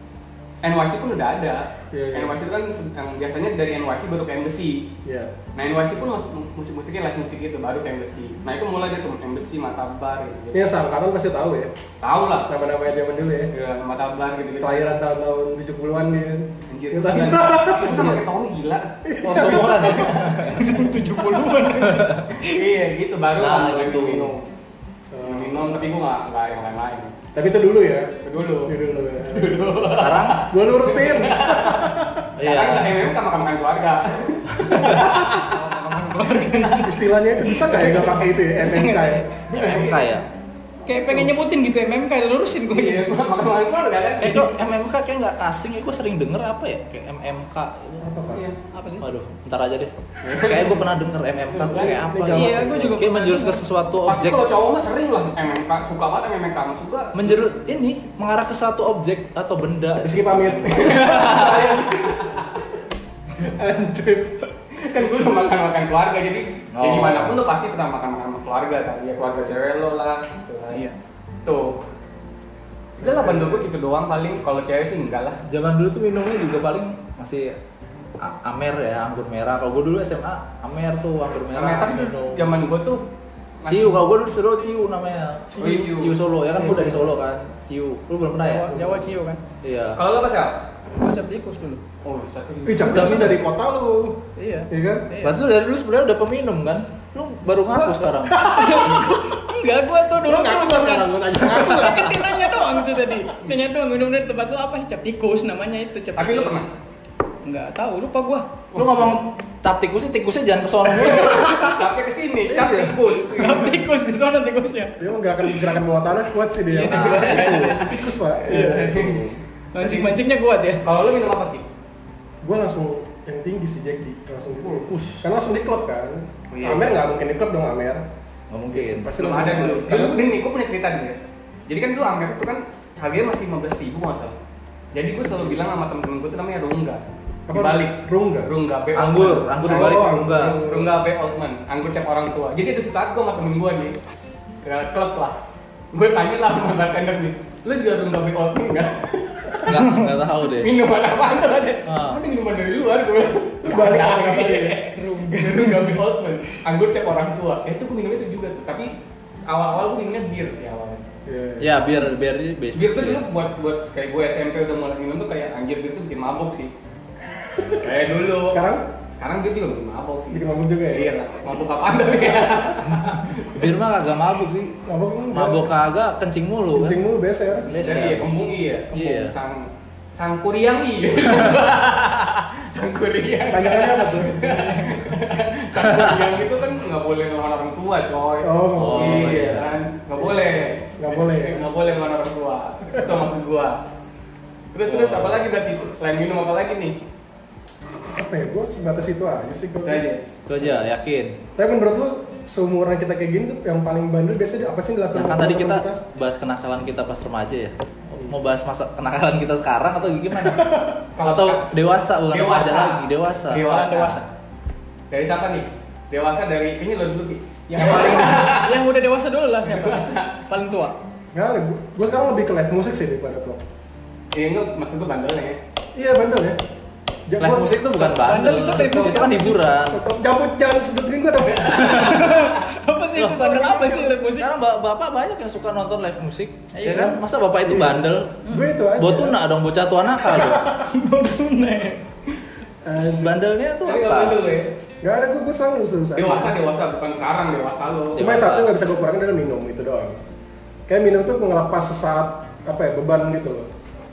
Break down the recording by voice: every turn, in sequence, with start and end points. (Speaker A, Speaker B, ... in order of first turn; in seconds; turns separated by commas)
Speaker A: 0.6-4.9, Speaker B: 1.9-2.4, Speaker B: 5.0-5.3, Speaker A: 5.5-10.7, Speaker B: 10.5-11.7, Speaker A: 12.0-12.5, Speaker B: 12.5-13.5, Speaker A: 13.5-14.8, Speaker B: 14.6-18.2, Speaker A: 16.7-20.2, Speaker B: 19.1-20.4, Speaker C: 19.2-20.7, Speaker D: 19.8-22.6, Speaker C: 21.9-22.2, Speaker A: 22.4-24.4, Speaker C: 23.4-24.3, Speaker B: 25.1-25.9, Speaker A: 25.2-27.1, Speaker B: 27.3-28.1, Speaker A: 28.2-35.6, Speaker B: 28.6-29.8, Speaker C: 29.9-30.4, Speaker B: 30.5-32.3, Speaker C: 32.4-33.0, Speaker C: 34.6-35.2, Speaker D: 35.0-39.3, Speaker A: 36.5-36.9, Speaker B: 36.8-39.3, Speaker A: 39.5-40.2, Speaker C: 39.5-40.2, Speaker D: 40.9-43.1, Speaker A: 42.7-44.6, Speaker C: 44.2-48.1, Speaker B: 48.0-48.5, Speaker A: 48.3-48.6, Speaker D: 48.7-49.1, Speaker C: 49.0-54.4, Speaker A: 50.2-50.9, Speaker A: 51.5-52.0, Speaker B: 51.8-53.0, Speaker D: 52.3-53.6, Speaker A: 54.1-57.4, Speaker C: 57.1-61.8, Speaker B: 60.0-62.2, Speaker A: 60.7-62.5, Speaker B: 63.4-64.5, Speaker A: 64.8-70.9, Speaker C: 66.8-67.4, Speaker B: 69.1-69.6, Speaker A: 71.5-71.8, Speaker B: 73.0-73.7, Speaker A: 73.0-75.4, Speaker C: 75.5-77.6, Speaker C: 78.2-82.5, Speaker A: 81.5-83.1, Speaker A: 83.6-84.0, Speaker C: 83.7-89.1, Speaker A: 85.6-86.9, Speaker B: 86.6-87.0, Speaker D: 88.4-89.4, Speaker C: 89.6-90.0, Speaker A: 90.0-90.6, Speaker D: 91.0-91.8, Speaker A: 92.0-93.4, Speaker B: 92.7-95.1, Speaker C: 92.9-93.4, Speaker D: 94.4-95.4, Speaker C: 95.2-99.0, Speaker B: 98.3-99.2, Speaker D: 98.4-106.6, Speaker B: 100.2-102.9, Speaker A: 106.2-106.7, Speaker D: 107.4-108.6, Speaker A: 108.7-109.2, Speaker C: 108.8-111.7, Speaker A: 111.0-113.8, Speaker B: 112.5-113.0, Speaker D: 113.3-115.7, Speaker B: 115.0-119.4, Speaker D: 116.7-117.8, Speaker A: 116.9-120.2, Speaker C: 116.9-117.8, Speaker D: 119.7-120.8, Speaker A: 120.8-121.6, Speaker B: 122.4-128.1, Speaker C: 124.9-125.2, Speaker A: 126.5-127.0, Speaker C: 128.5-129.2, Speaker B: 128.7-130.3, Speaker A: 129.2-134.4, Speaker A: 134.9-144.0, Speaker B: 137.5-138.5, Speaker C: 138.9-140.6, Speaker B: 139.6-141.0, Speaker A: 144.6-145.4, Speaker A: 145.9-158.9, Speaker C: 149.6-150.7, Speaker C: 151.9-152.2, Speaker B: 153.6-154.8, Speaker D: 154.9-156.0, Speaker A: 159.5-161.0, Speaker B: 161.2-161.8, Speaker C: 161.6-163.2, Speaker A: 162.7-166.7, Speaker B: 167.5-167.8, Speaker A: 167.7-168.7, Speaker B: 168.5-168.8, Speaker A: 169.2-173.7, Speaker B: 170.3-171.1, Speaker C: 173.5-174.8, Speaker B: 174.9-175.7, Speaker C: 175.3-177.0, Speaker B: 176.7-178.0, Speaker C: 177.7-178.3, Speaker A: 177.8-193.8, Speaker C: 178.9-179.3, Speaker B: 183.5-184.5, Speaker C: 185.8-186.3, Speaker B: 188.4-189.5, Speaker C: 188.8-189.7, Speaker B: 190.2-191.6, Speaker A: 194.7-197.0, Speaker C: 194.9-195.4, Speaker B: 198.1-200.1, Speaker A: 199.8-200.2, Speaker C: 200.5-201.3, Speaker B: 201.6-206.0, Speaker C: 205.1-213.6, Speaker B: 210.4-210.9, Speaker A: 211.2-211.8, Speaker A: 212.3-214.2, Speaker D: 213.6-214.3, Speaker A: 215.1-218.8, Speaker D: 217.7-221.0, Speaker B: 217.8-218.5, Speaker A: 219.6-220.4, Speaker B: 221.3-223.6, Speaker A: 224.3-225.6, Speaker B: 225.9-226.6, Speaker B: 227.3-232.2, Speaker C: 227.4-230.0, Speaker D: 228.0-229.6, Speaker A: 231.5-232.0, Speaker D: 231.7-234.5, Speaker C: 231.9-232.3, Speaker C: 233.2-238.4, Speaker D: 236.7-237.2, Speaker B: 236.9-239.4, Speaker D: 238.4-238.8, Speaker C: 239.0-240.7, Speaker B: 240.4-240.6, Speaker D: 240.7-242.0, Speaker B: 242.8-243.4, Speaker C: 243.2-244.4, Speaker A: 243.8-244.7, Speaker B: 245.0-246.6, Speaker A: 246.1-248.2, Speaker C: 248.1-248.7, Speaker B: 248.2-250.2, Speaker B: 250.9-253.7